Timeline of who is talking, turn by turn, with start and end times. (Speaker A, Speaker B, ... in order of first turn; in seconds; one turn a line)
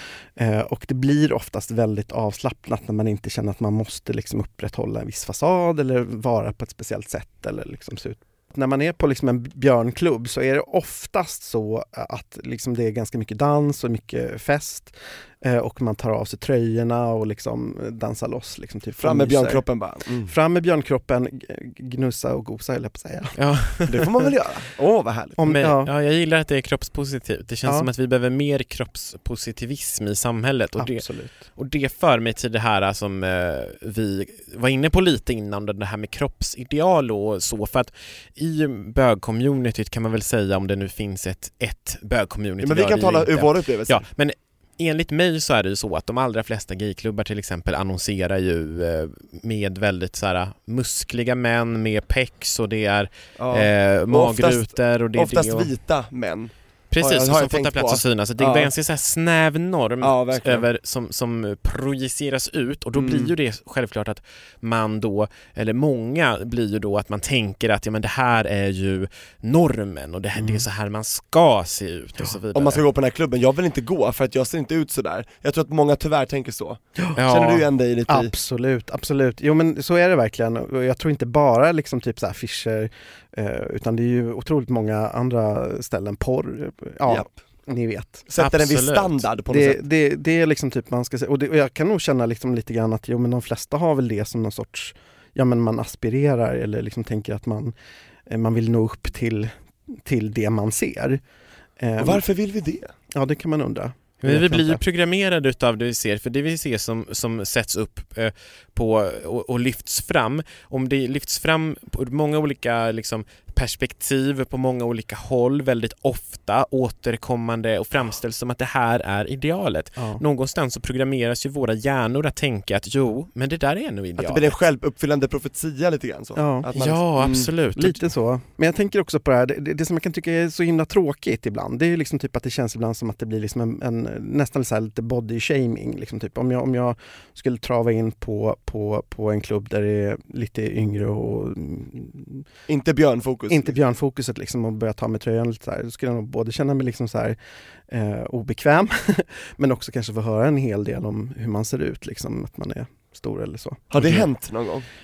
Speaker A: 0.3-19.7
Speaker B: 19.0-20.3
Speaker A: 20.2-23.4
Speaker C: 23.4-24.0
Speaker B: 23.9-25.4
Speaker A: 25.4-25.9
Speaker C: 25.4-55.7
Speaker A: 30.8-31.4
Speaker B: 42.6-44.1
Speaker B: 53.4-58.7
Speaker C: 56.9-72.8
Speaker B: 60.0-60.7
Speaker B: 62.9-63.3
Speaker A: 70.3-70.7
Speaker B: 72.5-78.3
Speaker C: 77.2-77.7
Speaker A: 78.1-88.3
Speaker B: 87.1-87.3
Speaker B: 88.3-89.8
Speaker C: 88.4-89.2
Speaker A: 89.5-97.7
Speaker A: 98.3-101.2
Speaker A: 101.8-102.2
Speaker B: 102.0-102.9
Speaker A: 103.1-104.8
Speaker C: 104.2-124.6
Speaker A: 120.0-120.2
Speaker B: 124.2-127.5
Speaker A: 126.3-126.7
Speaker C: 126.7-128.0
Speaker A: 127.3-142.4
Speaker B: 142.7-143.7
Speaker A: 143.5-154.2
Speaker B: 153.9-154.8